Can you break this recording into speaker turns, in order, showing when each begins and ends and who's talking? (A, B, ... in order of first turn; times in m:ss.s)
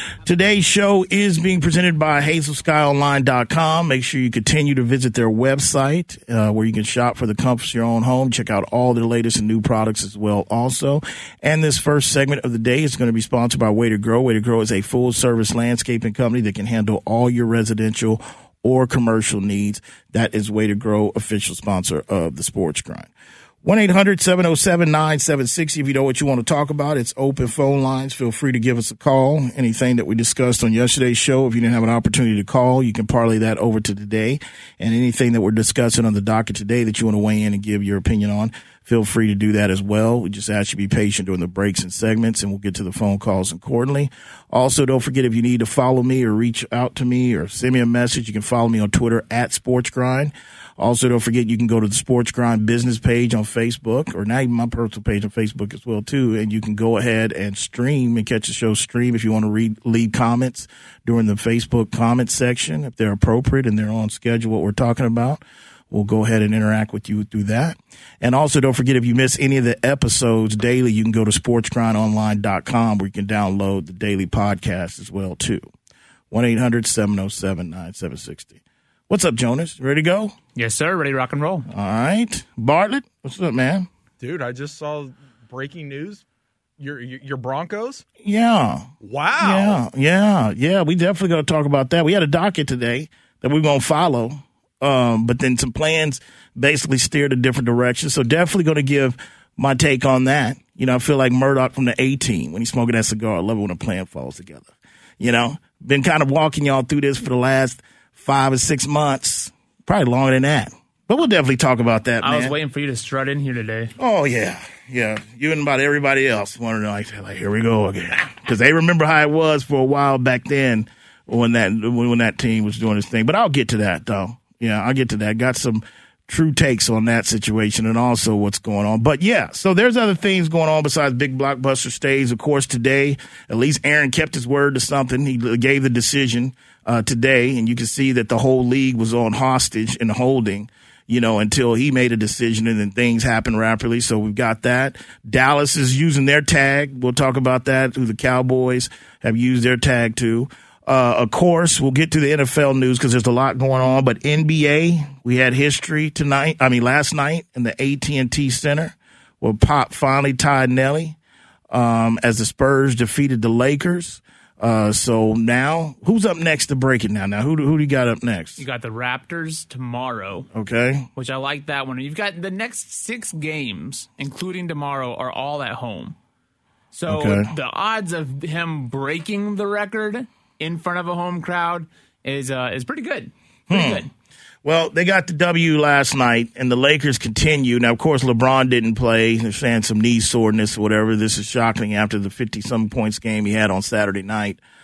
0:00.2-0:23.1 A
0:23.6-1:15.6 A
1:16.3-1:18.6 A
1:19.1-1:20.3 A
1:20.6-1:21.7 B
1:21.7-1:23.9 A
1:24.2-1:26.2 C
1:26.8-1:28.0 C
1:28.2-1:52.5 A
1:29.0-1:29.8 C
1:52.2-1:53.9 B
1:54.0-2:41.2 A
2:41.7-2:48.6 A
2:48.6-2:50.5 B
2:50.5-2:51.1 A
2:51.2-2:56.2 B
2:56.9-3:04.1 B
2:57.1-2:57.5 A
3:03.7-3:04.1 A
3:04.6-3:14.6 A